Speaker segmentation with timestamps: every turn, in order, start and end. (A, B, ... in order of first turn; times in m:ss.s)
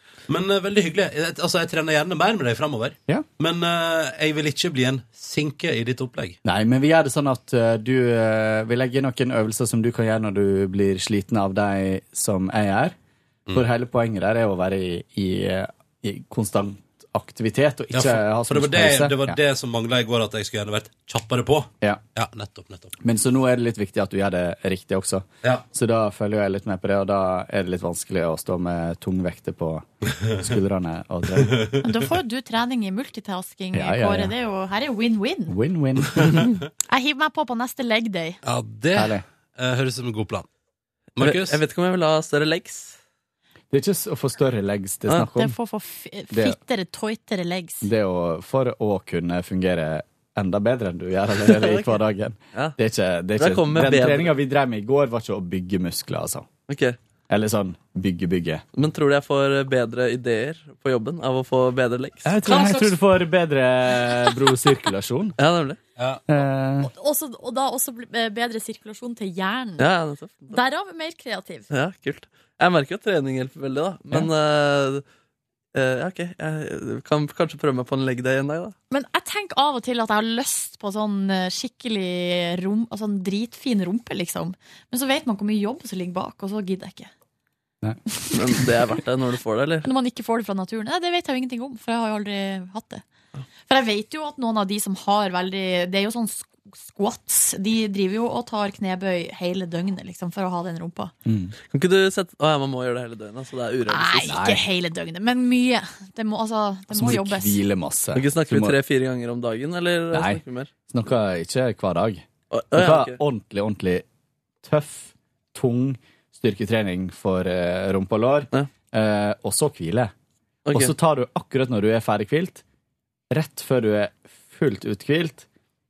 0:00.3-0:06.4 A
0:06.4-0:13.0 B
0:13.5-0:19.4 B
0:17.9-0:22.9 A
0:23.0-0:31.8 B
0:31.4-0:31.8 A
0:31.8-0:35.5 C
0:33.7-0:34.3 B
0:35.5-0:36.5 B
0:36.9-0:38.4 C
0:38.4-0:40.5 A
0:38.9-0:39.2 B
0:41.2-0:41.6 A
0:41.2-0:43.0 D
0:43.7-0:45.6 B
0:45.3-0:47.9 C
0:46.3-0:46.6 B
0:47.8-0:56.5 B
0:51.4-0:52.0 D
0:53.4-0:54.3 D
0:56.7-0:57.0 D
0:57.3-0:58.6 B
0:58.7-1:02.3 D
1:02.2-1:05.4 B
1:02.4-1:03.0 A
1:05.4-1:05.8 D
1:06.0-1:06.2 A
1:06.3-1:06.9 B
1:06.8-1:09.9 C
1:09.8-1:10.6 D
1:10.5-1:11.7 C
1:11.7-1:15.0 D
1:15.7-1:18.8 D
1:18.9-1:27.1 C
1:28.3-1:29.9 D
1:29.8-1:33.0 C
1:33.7-1:41.1 C
1:41.3-1:41.5 B
1:41.7-1:44.3 D
1:43.9-1:47.6 C
1:44.2-1:44.6 B
1:46.9-1:48.8 B
1:48.1-1:50.7 D
1:50.1-1:54.0 B
1:52.5-1:53.2 D
1:54.6-2:00.1 B
2:00.7-2:00.9 D
2:00.7-2:02.6 B
2:03.3-2:05.5 B